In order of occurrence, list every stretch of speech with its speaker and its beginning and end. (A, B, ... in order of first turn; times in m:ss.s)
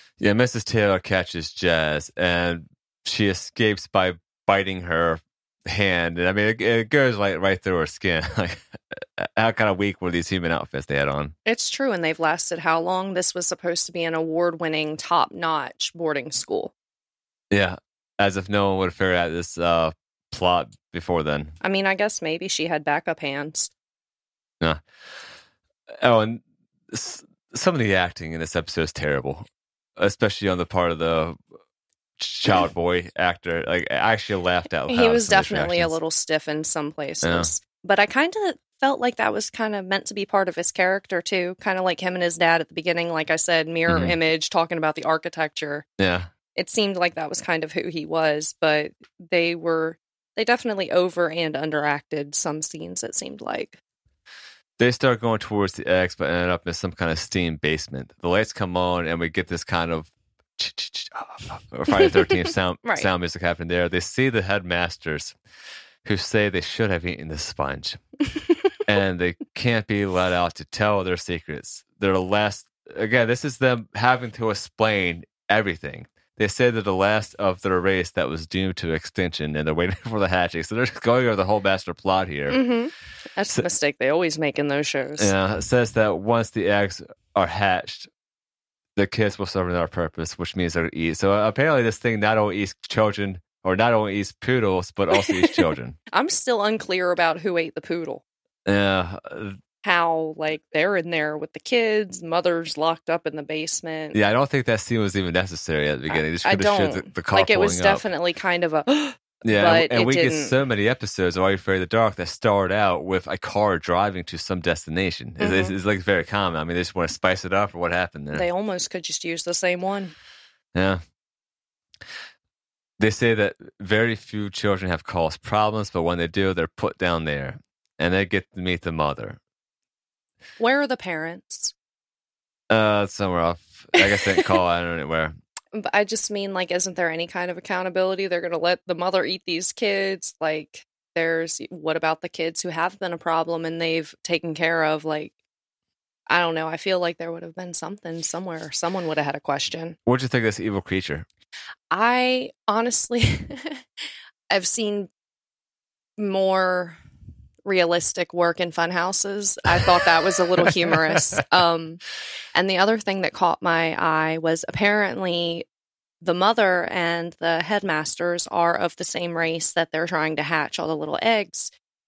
0:00.2-0:11.3 A
0:11.4-0:16.7 B
0:17.5-0:21.5 A
0:21.6-0:23.7 B
0:26.0-0:31.4 A
0:32.2-0:36.0 A
0:34.9-0:45.8 B
0:37.2-0:37.5 A
0:43.9-0:44.2 A
0:46.0-0:46.3 A
0:46.5-0:53.8 B
0:54.8-1:05.4 A
1:06.0-1:08.0 A
1:08.8-1:22.6 A
1:22.5-1:25.3 B
1:25.2-1:28.1 A
1:29.0-1:36.0 A
1:36.1-1:38.2 B
1:38.6-1:39.6 A
1:39.8-1:44.2 B
1:44.1-1:48.0 A
1:46.1-1:50.5 B
1:49.4-1:58.4 A
1:55.4-1:55.7 B
1:58.3-2:00.1 B
2:00.7-2:01.0 A
2:03.0-2:09.4 A
2:10.6-2:11.7 B
2:12.7-2:15.3 A
2:15.7-2:25.3 B
2:26.3-2:30.0 B
2:30.0-2:31.2 A
2:31.9-2:35.1 B
2:36.2-2:37.0 B
2:37.6-2:42.0 B
2:42.5-2:45.7 B
2:46.2-2:51.7 B